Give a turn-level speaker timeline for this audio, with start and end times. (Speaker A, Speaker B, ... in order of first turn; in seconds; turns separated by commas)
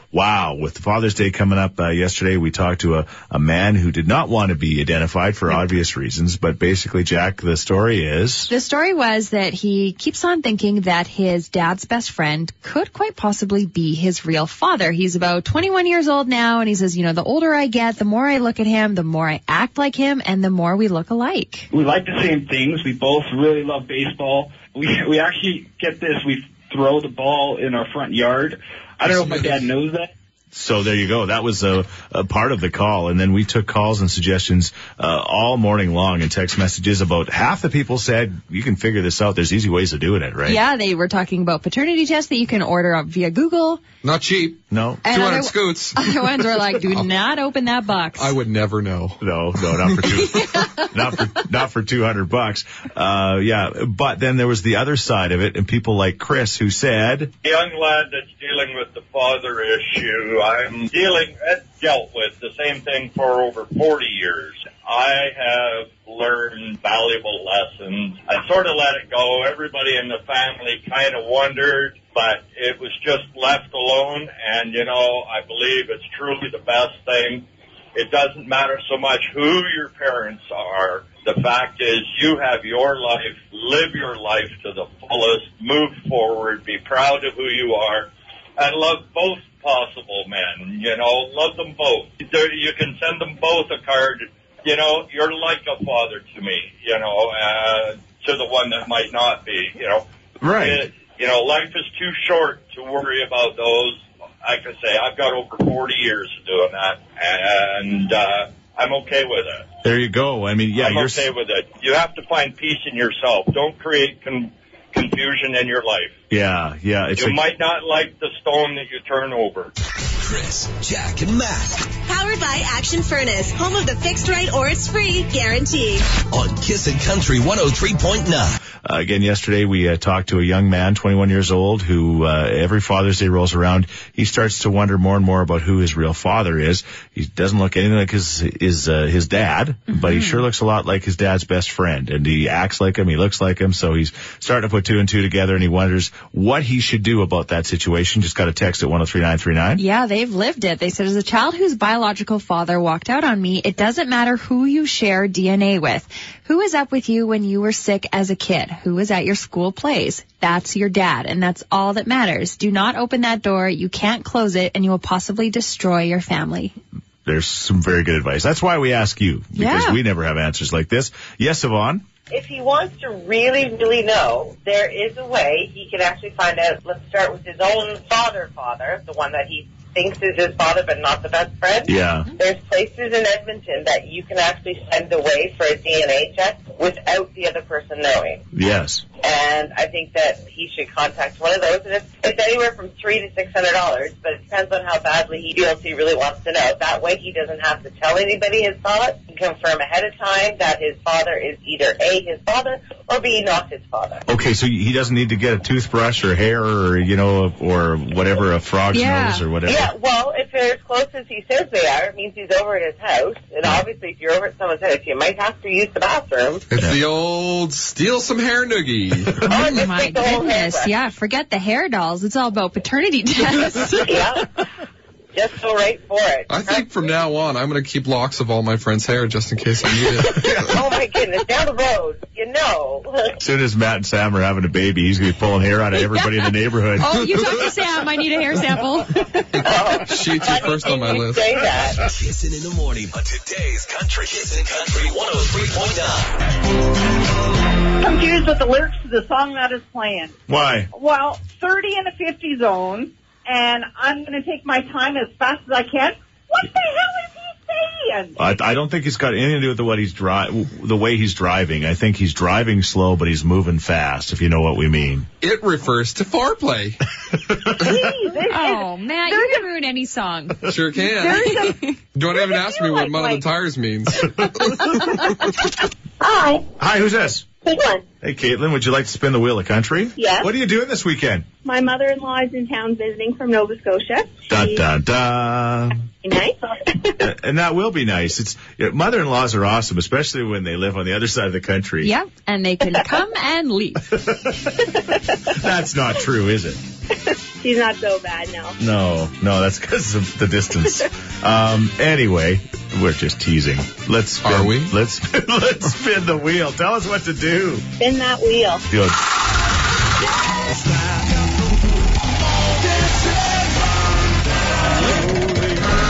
Speaker A: 0.1-8.5, Speaker B: 8.5-21.7, Speaker C: 21.7-30.1, Speaker A: 29.0-29.4, Speaker D: 29.1-29.5, Speaker A: 30.5-40.6, Speaker B: 40.4-43.8, Speaker D: 44.0-47.1, Speaker A: 44.7-45.0, Speaker B: 45.0-48.3, Speaker D: 48.1-49.2, Speaker A: 49.2-57.3, Speaker D: 49.8-50.1, Speaker B: 50.4-50.9, Speaker E: 57.4-100.0, Speaker A: 100.4-100.8, Speaker E: 100.5-109.7, Speaker A: 109.8-111.3, Speaker E: 110.8-116.1, Speaker A: 116.3-117.4, Speaker E: 117.2-119.7, Speaker F: 120.2-121.9, Speaker G: 122.1-126.0, Speaker F: 126.3-128.6, Speaker A: 128.8-149.8, Speaker B: 139.9-140.4, Speaker B: 149.8-166.7, Speaker A: 167.2-172.0, Speaker B: 169.6-170.0, Speaker H: 172.3-188.4, Speaker A: 181.9-182.3, Speaker A: 188.5-189.0, Speaker H: 189.2-204.2, Speaker A: 204.3-209.9, Speaker B: 208.9-209.4, Speaker H: 209.6-216.7, Speaker D: 216.7-219.4, Speaker H: 219.4-220.9, Speaker B: 219.5-224.2, Speaker H: 223.9-224.6, Speaker H: 225.3-226.9, Speaker D: 226.5-230.7, Speaker H: 230.3-233.3, Speaker A: 230.3-230.7, Speaker A: 233.4-237.4, Speaker B: 237.0-239.5, Speaker D: 239.5-241.5, Speaker H: 239.6-242.0, Speaker F: 242.0-246.4, Speaker I: 248.0-250.3, Speaker A: 250.5-250.9, Speaker I: 250.9-258.4, Speaker A: 258.4-265.3, Speaker D: 265.4-267.0, Speaker A: 267.5-267.9, Speaker J: 267.7-269.7, Speaker B: 268.5-270.7, Speaker D: 270.7-274.9, Speaker J: 271.0-273.4, Speaker B: 271.3-271.8, Speaker J: 276.2-276.6, Speaker A: 276.8-277.4, Speaker J: 277.6-278.0, Speaker A: 278.2-281.5, Speaker J: 280.2-280.5, Speaker J: 281.6-284.8, Speaker A: 284.5-286.1, Speaker J: 286.2-287.3, Speaker A: 287.2-292.1, Speaker B: 292.0-294.1, Speaker A: 294.1-294.9, Speaker A: 295.4-296.8, Speaker J: 297.6-298.8, Speaker A: 298.8-307.9, Speaker D: 304.4-304.9, Speaker J: 308.0-308.8, Speaker A: 308.9-309.2